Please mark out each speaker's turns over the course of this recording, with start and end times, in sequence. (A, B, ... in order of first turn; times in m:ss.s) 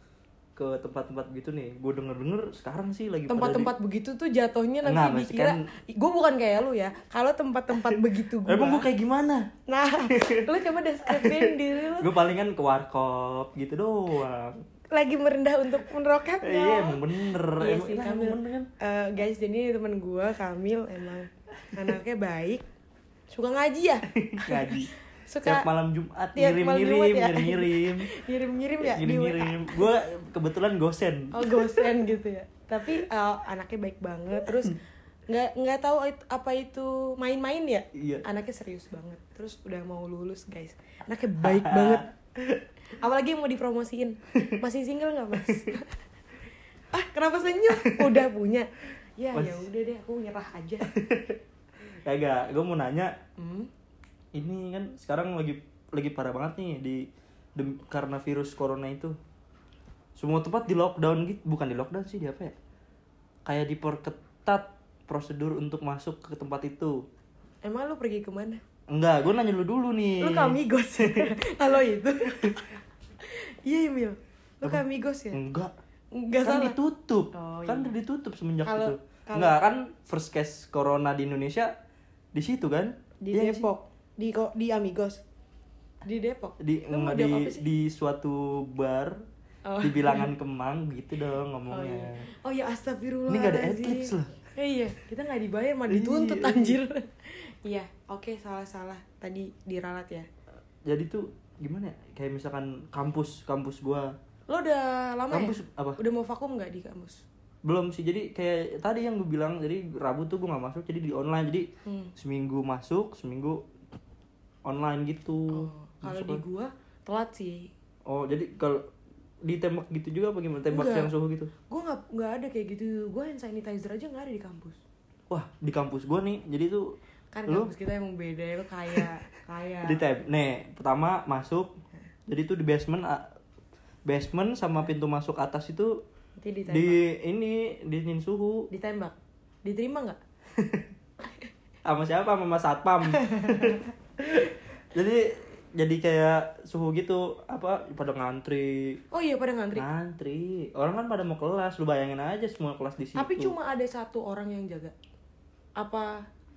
0:00.6-0:03.7 A
0:03.3-0:08.9 B
0:04.8-0:05.6 A
0:07.7-0:09.5 A
0:09.7-0:12.1 B
0:10.1-0:10.5 A
0:11.1-0:14.6 A
0:14.9-0:22.6 B
0:16.4-0:18.7 A
0:23.3-0:25.7 B
0:24.1-0:24.9 A
0:25.4-0:28.1 A
0:26.4-0:29.9 B
0:28.8-0:32.0 A
0:31.3-0:42.1 B
0:34.4-0:34.7 A
0:37.9-0:38.2 A
0:41.4-0:42.6 A
0:42.9-0:46.0 B
0:45.4-0:45.7 A
0:46.9-0:50.9 B
0:47.7-0:48.2 A
0:49.3-0:49.7 A
0:50.9-0:51.4 A
0:51.9-0:53.1 A
0:53.4-0:53.7 B
0:54.3-0:59.2 A
1:00.2-1:02.6 A
1:03.4-1:07.0 A
1:07.6-1:08.6 B
1:08.9-1:11.3 A
1:10.2-1:15.4 B
1:15.3-1:15.7 A
1:16.1-1:16.8 B
1:16.4-1:21.7 A
1:17.3-1:17.9 B
1:18.6-1:19.6 B
1:22.3-1:23.7 A
1:23.2-1:25.2 B
1:26.0-1:27.6 B
1:26.6-1:29.2 A
1:29.7-1:30.3 B
1:29.8-1:32.2 A
1:31.7-1:40.3 B
1:33.3-1:34.4 A
1:35.9-1:36.8 A
1:40.8-1:44.1 A
1:44.5-1:47.2 B
1:45.3-1:46.0 A
1:47.6-1:53.6 A
1:51.8-1:52.1 B
1:54.6-1:56.4 A
1:55.5-1:57.7 B
1:58.1-1:58.9 A
1:59.4-2:01.5 A
2:00.7-2:01.1 B
2:01.7-2:04.8 B
2:05.3-2:06.9 A
2:07.3-2:10.0 B
2:07.5-2:07.7 A
2:09.8-2:11.7 A
2:12.3-2:13.3 A
2:14.1-2:16.0 A
2:16.4-2:17.0 B
2:16.7-2:18.7 A
2:18.7-2:20.2 B
2:20.5-2:20.9 A
2:21.8-2:29.0 A
2:23.1-2:23.9 B
2:29.1-2:29.8 B
2:29.8-2:33.5 A
2:33.2-2:34.9 B
2:35.8-2:36.3 B